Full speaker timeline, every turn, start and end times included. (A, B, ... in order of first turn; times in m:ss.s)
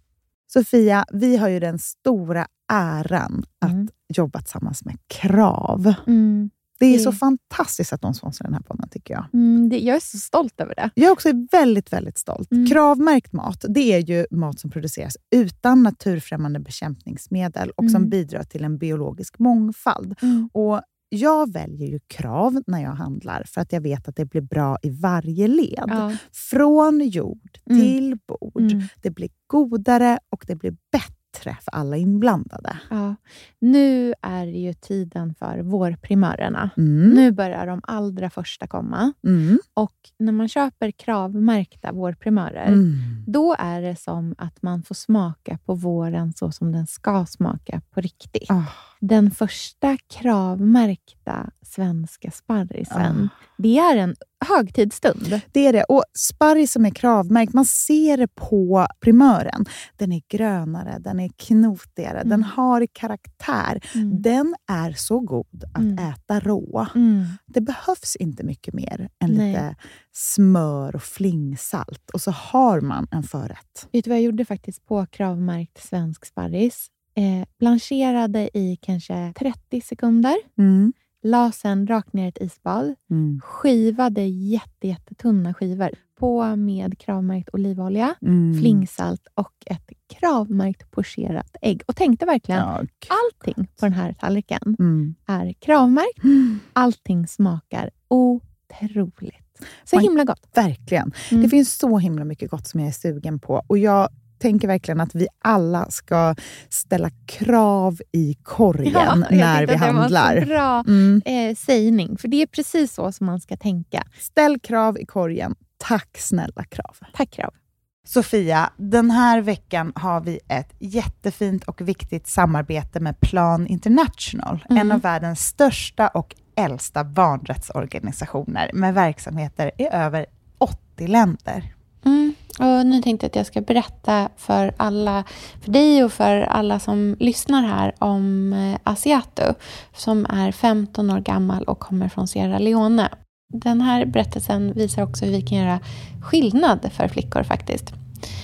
0:00.5-0:06.0 A
0:06.1-0:07.2 B
0:06.8-0:09.3 A
0:09.3-0:10.9 B
0:11.0-0:32.8 A
0:12.5-0:12.8 B
0:17.8-0:18.1 B
0:20.2-0:20.5 B
0:25.9-0:26.2 B
0:27.7-0:28.0 B
0:28.6-0:28.9 B
0:32.9-0:39.2 B
0:36.8-0:37.2 A
0:39.2-0:39.6 A
0:39.8-0:55.4 B
0:42.7-0:43.2 A
0:48.5-0:48.9 A
0:52.9-0:53.4 A
0:55.5-1:06.9 A
1:03.9-1:04.2 B
1:05.8-1:06.0 B
1:06.9-1:07.4 B
1:07.4-1:13.9 A
1:09.3-1:09.6 B
1:13.9-1:20.4 B
1:20.6-1:20.9 A
1:21.2-1:36.2 B
1:23.1-1:23.4 A
1:28.2-1:28.8 A
1:32.5-1:33.1 A
1:34.8-1:35.2 A
1:36.7-1:40.5 B
1:39.9-1:51.2 A
1:48.8-1:54.1 B
1:54.2-1:57.1 A
1:57.1-1:57.5 B
1:58.1-2:11.7 A
2:04.7-2:05.0 B
2:12.1-2:18.3 C
2:21.4-2:22.2 C
2:24.5-2:25.8 C
2:26.3-2:27.9 C